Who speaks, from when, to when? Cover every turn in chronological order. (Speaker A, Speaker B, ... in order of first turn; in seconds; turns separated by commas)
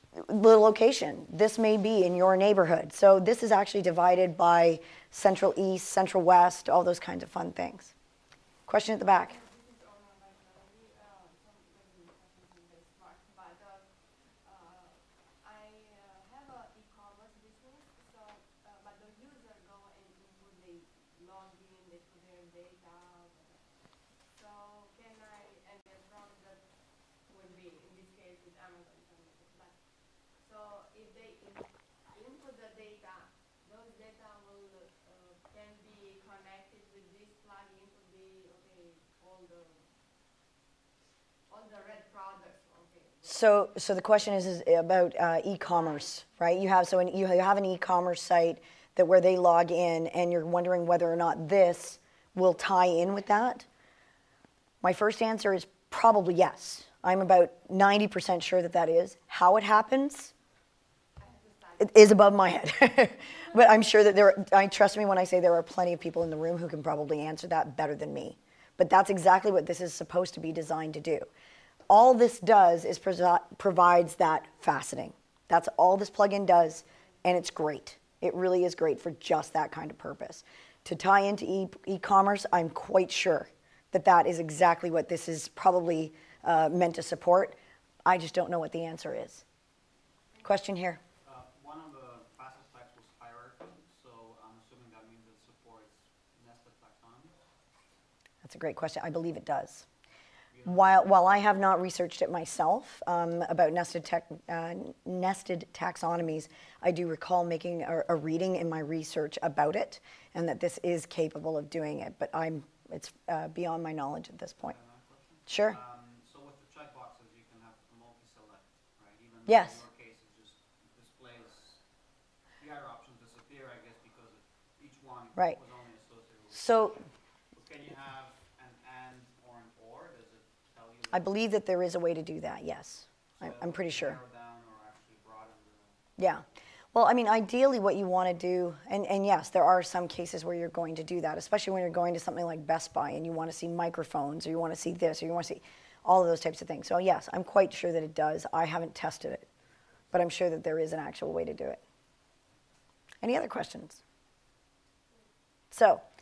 Speaker A: 0.2-7.9, Speaker A: 8.7-9.4, Speaker B: 8.9-40.0, Speaker B: 41.5-43.8, Speaker A: 43.3-53.7, Speaker B: 45.7-46.2, Speaker A: 54.8-60.3, Speaker B: 61.2-62.8, Speaker A: 61.8-71.3, Speaker B: 63.3-63.6, Speaker A: 71.9-89.4, Speaker A: 90.4-91.0, Speaker C: 91.2-97.3, Speaker A: 98.4-99.8, Speaker C: 100.5-101.5, Speaker A: 100.7-114.8, Speaker C: 114.6-121.8, Speaker A: 115.5-115.8, Speaker A: 119.5-119.8, Speaker C: 122.6-131.4, Speaker A: 126.5-127.0, Speaker A: 131.1-134.2, Speaker C: 133.4-136.0, Speaker A: 136.2-149.5, Speaker A: 150.1-151.8, Speaker A: 153.2-154.0, Speaker A: 155.7-156.0